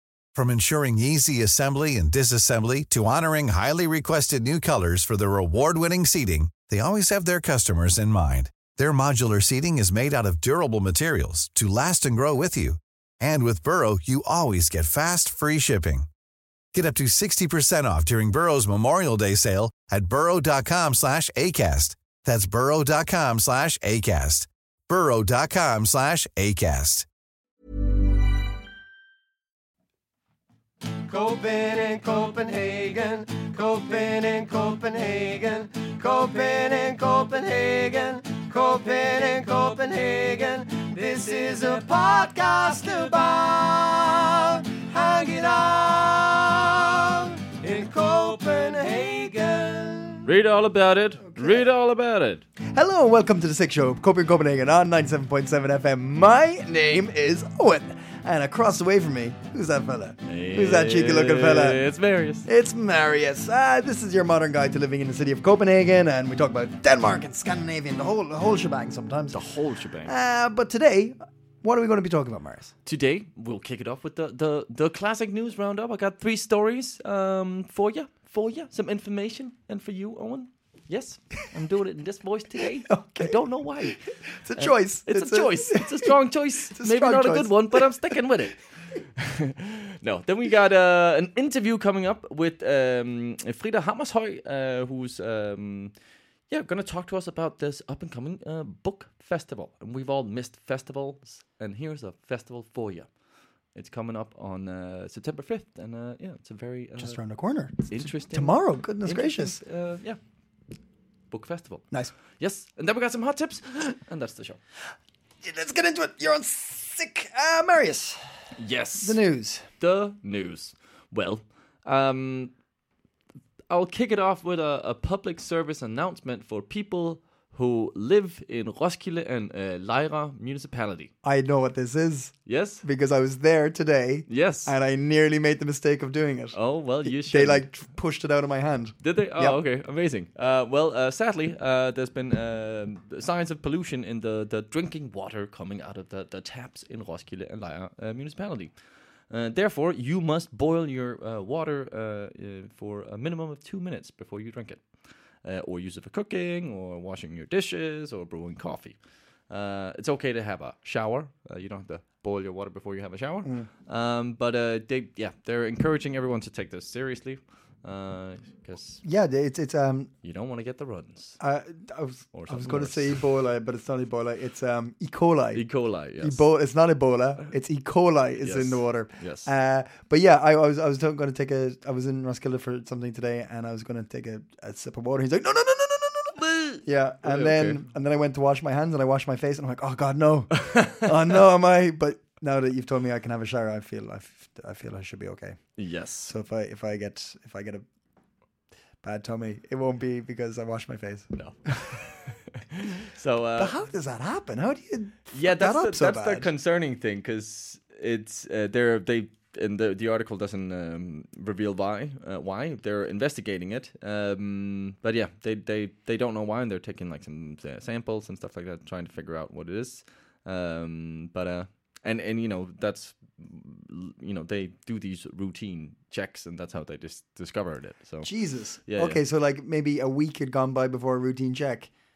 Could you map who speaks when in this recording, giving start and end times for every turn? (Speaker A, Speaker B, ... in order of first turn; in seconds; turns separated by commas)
Speaker A: 0.3-16.1, Speaker A: 16.7-27.1, Speaker B: 31.1-50.3, Speaker C: 50.3-52.5, Speaker D: 51.2-51.7, Speaker D: 52.6-61.8, Speaker C: 60.2-62.5, Speaker D: 62.5-69.4, Speaker C: 69.3-70.1, Speaker D: 70.0-72.7, Speaker C: 72.8-95.9, Speaker D: 82.6-86.2, Speaker D: 86.7-87.9, Speaker C: 96.5-103.1, Speaker C: 103.7-107.2, Speaker D: 107.0-109.6, Speaker C: 107.8-110.2, Speaker C: 111.3-114.6, Speaker D: 115.4-118.3, Speaker C: 118.6-119.2, Speaker D: 119.0-119.7, Speaker C: 119.8-122.5, Speaker C: 123.7-131.1, Speaker D: 131.2-139.6, Speaker C: 132.5-132.8, Speaker C: 134.3-134.7, Speaker C: 136.5-137.8, Speaker C: 139.0-148.7, Speaker C: 149.3-154.9, Speaker C: 155.4-159.0, Speaker C: 159.5-169.0, Speaker D: 163.4-163.7, Speaker D: 169.0-170.1, Speaker C: 170.2-171.4, Speaker D: 171.4-175.7, Speaker C: 172.3-173.2, Speaker C: 175.5-176.4, Speaker D: 176.2-197.8, Speaker C: 178.4-179.5, Speaker C: 186.4-187.8, Speaker C: 190.6-191.1, Speaker C: 195.8-196.3, Speaker D: 199.0-201.7, Speaker C: 201.3-203.8, Speaker D: 203.6-206.5, Speaker C: 205.3-229.2, Speaker D: 228.2-231.9